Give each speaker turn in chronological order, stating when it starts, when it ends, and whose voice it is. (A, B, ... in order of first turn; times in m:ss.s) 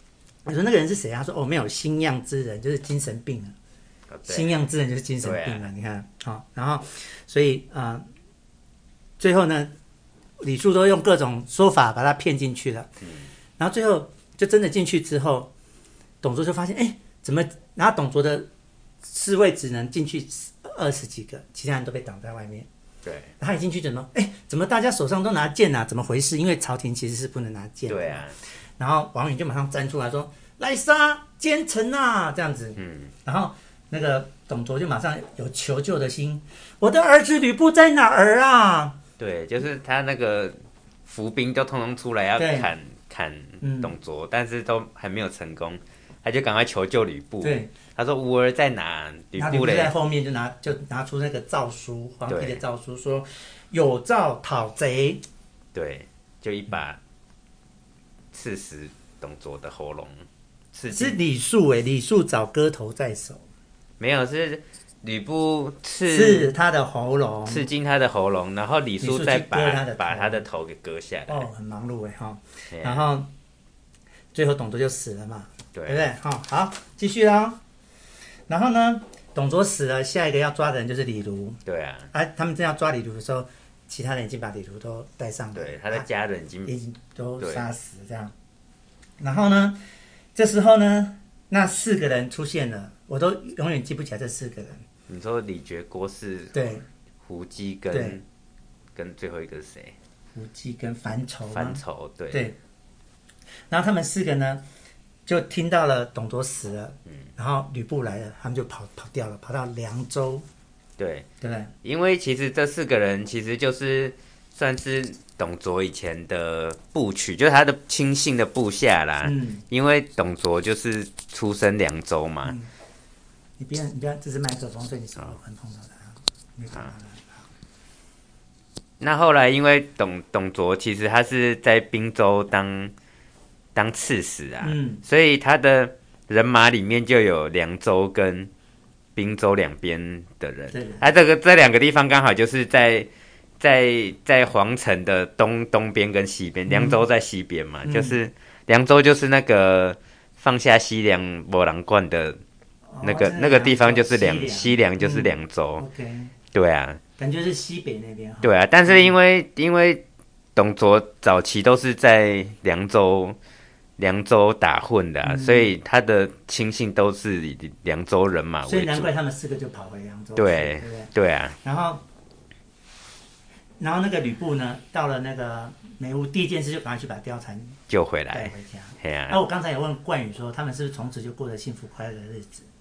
0:00.4-0:03.5 A
0:04.1-0:04.6 B
0:04.3-0:08.0 A
0:05.2-0:05.7 B
0:09.2-0:09.7 A
0:10.4-0:12.9 A
0:13.0-0:13.3 B
0:13.6-0:15.5 A
0:16.2-0:18.5 A
0:19.0-0:22.7 A
0:23.0-0:23.3 B
0:23.4-0:39.0 A
0:27.9-0:28.4 B
0:32.8-0:33.1 B
0:39.2-0:49.9 B
0:42.4-0:42.7 A
0:43.6-0:43.9 A
0:47.4-0:47.7 A
0:49.4-0:55.2 A
0:52.3-0:52.6 B
0:55.7-0:57.0 B
0:58.3-1:01.2 B
1:00.9-1:03.4 A
1:04.0-1:06.5 B
1:06.1-1:07.6 A
1:07.5-1:11.5 B
1:09.0-1:10.4 A
1:11.3-1:13.3 A
1:12.7-1:13.1 B
1:14.3-1:17.6 A
1:15.7-1:16.0 B
1:18.5-1:21.6 A
1:21.6-1:22.1 B
1:22.1-1:26.0 A
1:25.5-1:26.7 B
1:26.6-1:28.3 A
1:27.4-1:27.7 B
1:29.2-1:29.8 A
1:30.3-1:34.8 A
1:35.1-1:38.2 B
1:36.5-1:36.8 A
1:37.9-1:38.2 A
1:38.9-1:40.0 B
1:40.3-1:41.8 A
1:41.5-1:42.5 B
1:43.7-1:44.6 A
1:45.3-1:50.4 A
1:51.0-1:51.3 B
1:51.4-1:51.7 A
1:51.8-2:02.6 B
1:59.2-1:59.6 A
2:03.6-2:07.5 A
2:09.0-2:12.9 B
2:13.7-2:18.5 B
2:14.6-2:15.0 A
2:19.1-2:23.1 B
2:20.7-2:21.0 A
2:23.6-2:32.4 B
2:26.7-2:27.0 A
2:27.8-2:28.2 A
2:32.9-2:36.3 A
2:33.0-2:35.8 B
2:36.5-2:37.0 B
2:37.2-2:39.1 A
2:38.4-2:40.0 B
2:40.5-2:43.4 B
2:44.0-2:49.1 B
2:45.2-2:45.7 A
2:48.6-2:51.1 A
2:50.4-2:51.6 B
2:51.6-2:52.0 A
2:53.8-2:57.8 A
2:57.9-2:59.4 B
2:58.3-3:02.6 A